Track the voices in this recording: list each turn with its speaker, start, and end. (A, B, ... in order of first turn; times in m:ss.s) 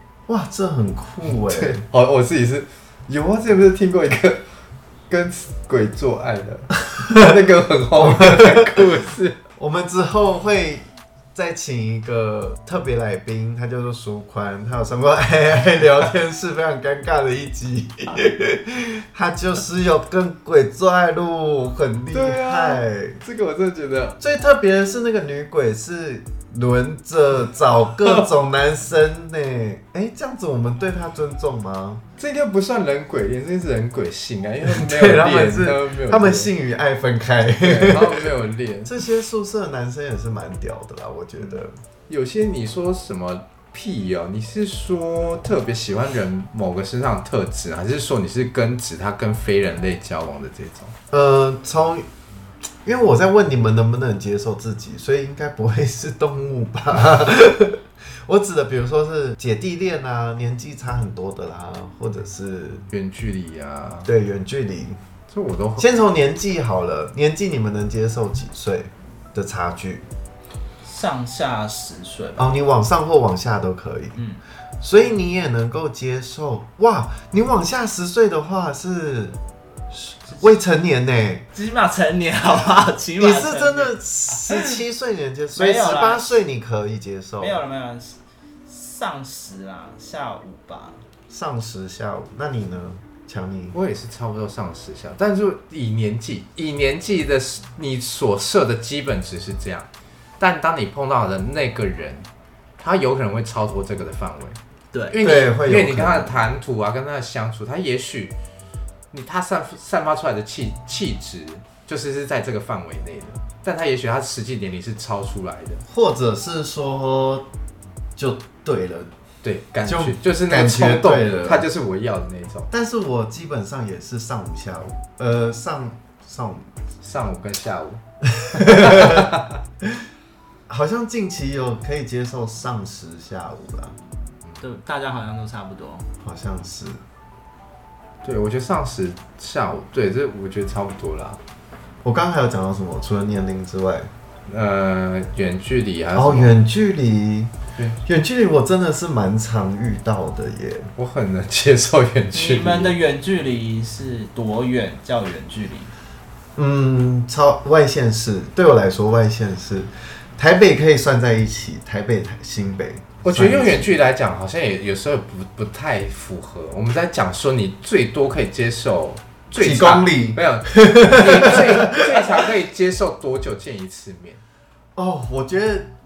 0:00.3-0:01.8 A
0:01.3-0:04.4 B
0:05.1-0:09.4 B
0:08.0-0:08.8 A
0:09.6-0:23.2 A
0:22.1-0:24.2 B
0:24.2-0:32.0 A
0:32.2-0:36.5 B
0:34.6-0:38.3 A
0:37.6-0:39.0 B
0:38.8-0:41.7 A
0:42.1-0:50.9 B
0:51.1-0:52.0 A
0:52.8-1:02.8 A
1:02.9-1:04.1 B
1:04.0-1:05.0 A
1:05.3-1:05.9 B
1:05.8-1:10.0 A
1:10.8-1:12.4 C
1:12.4-1:14.2 A
1:14.8-1:19.4 A
1:20.4-1:21.4 A
1:21.5-1:24.8 C
1:23.2-1:27.6 A
1:25.5-1:26.4 C
1:27.4-1:31.0 C
1:31.3-1:33.8 A
1:33.7-1:42.3 B
1:42.8-1:44.6 B
1:44.9-1:45.3 C
1:45.1-1:48.4 B
1:45.2-1:46.4 A
1:49.1-1:55.8 B
1:55.9-1:57.5 A
1:58.2-1:59.1 A
1:59.4-2:02.7 B
1:59.8-2:01.6 A
2:02.7-2:06.7 A
2:07.0-2:09.6 B
2:08.4-2:09.3 A
2:10.7-2:14.0 A
2:14.6-2:16.1 C
2:16.2-2:17.0 A
2:18.2-2:21.4 B
2:22.0-2:24.1 A
2:24.4-2:26.5 B
2:26.1-2:27.5 A
2:28.0-2:30.9 A
2:31.0-2:33.0 B
2:32.3-2:35.9 C
2:36.6-2:43.9 A
2:43.2-2:54.4 B
2:49.6-2:52.4 A
2:55.0-2:55.9 A